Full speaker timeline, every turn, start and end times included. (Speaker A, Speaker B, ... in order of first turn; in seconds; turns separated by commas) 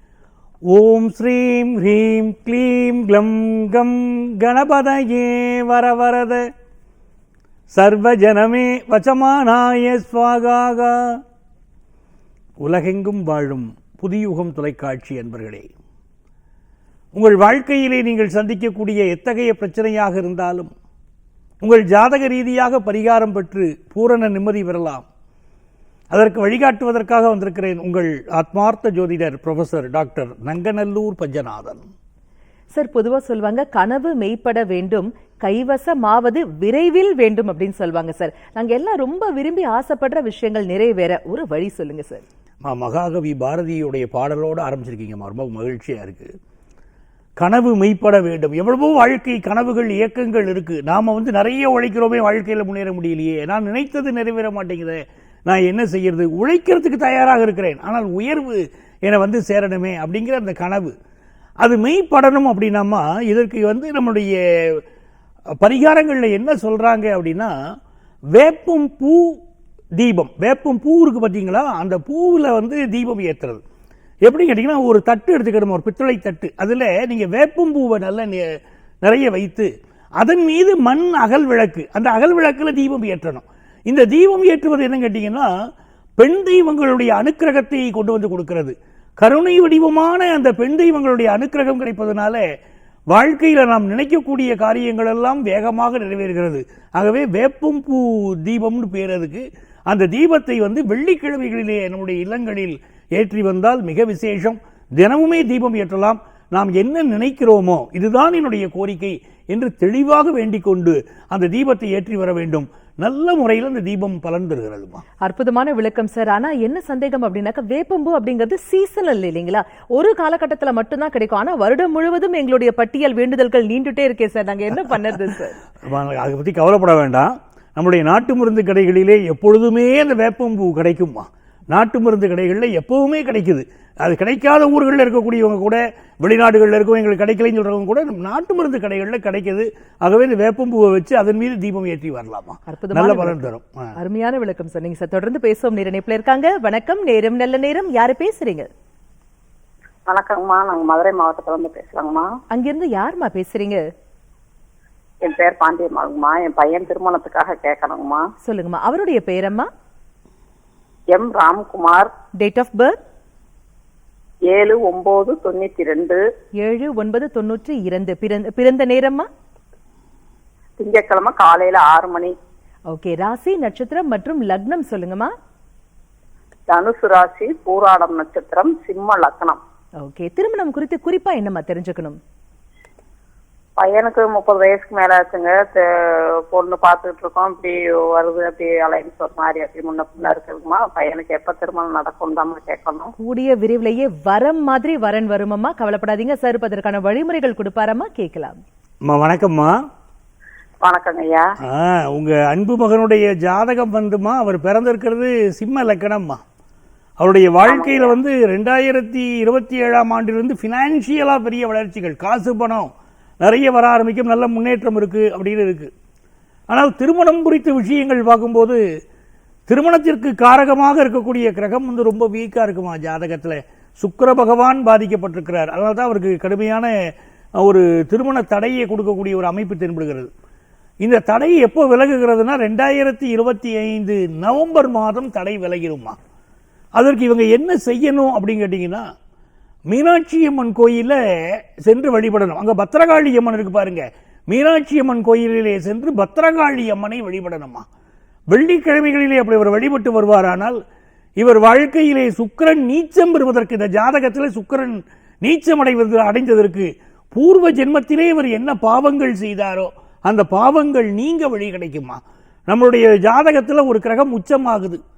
Speaker A: 0.7-6.5, Speaker A: 7.7-11.2, Speaker A: 12.6-15.7, Speaker A: 17.1-20.7, Speaker A: 21.6-25.0, Speaker A: 26.1-31.8, Speaker B: 32.7-42.2, Speaker A: 42.6-46.3, Speaker A: 47.4-60.9, Speaker A: 61.6-64.8, Speaker A: 65.6-67.5, Speaker A: 68.3-69.3, Speaker A: 70.0-73.6, Speaker A: 74.2-78.4, Speaker A: 79.0-85.5, Speaker A: 86.2-92.4, Speaker A: 93.1-115.0, Speaker B: 115.2-125.6, Speaker A: 125.8-143.9, Speaker B: 142.7-148.7, Speaker C: 150.1-152.3, Speaker B: 152.5-153.8, Speaker C: 155.2-158.2, Speaker B: 158.4-159.7, Speaker C: 161.1-162.1, Speaker B: 162.4-163.0, Speaker C: 164.5-166.2, Speaker B: 166.6-169.3, Speaker C: 170.8-172.3, Speaker B: 172.9-175.3, Speaker C: 176.7-179.6, Speaker B: 180.0-182.2, Speaker C: 183.8-193.1, Speaker B: 193.2-198.6, Speaker A: 199.0-199.7, Speaker C: 200.8-201.5, Speaker A: 201.6-206.4, Speaker A: 207.2-215.9, Speaker C: 207.6-208.1, Speaker A: 216.7-218.8, Speaker A: 219.7-226.9, Speaker A: 227.6-230.3, Speaker A: 231.0-236.2, Speaker A: 236.9-239.0, Speaker A: 239.9-241.2, Speaker A: 241.8-247.8, Speaker A: 248.5-250.8, Speaker A: 251.4-265.0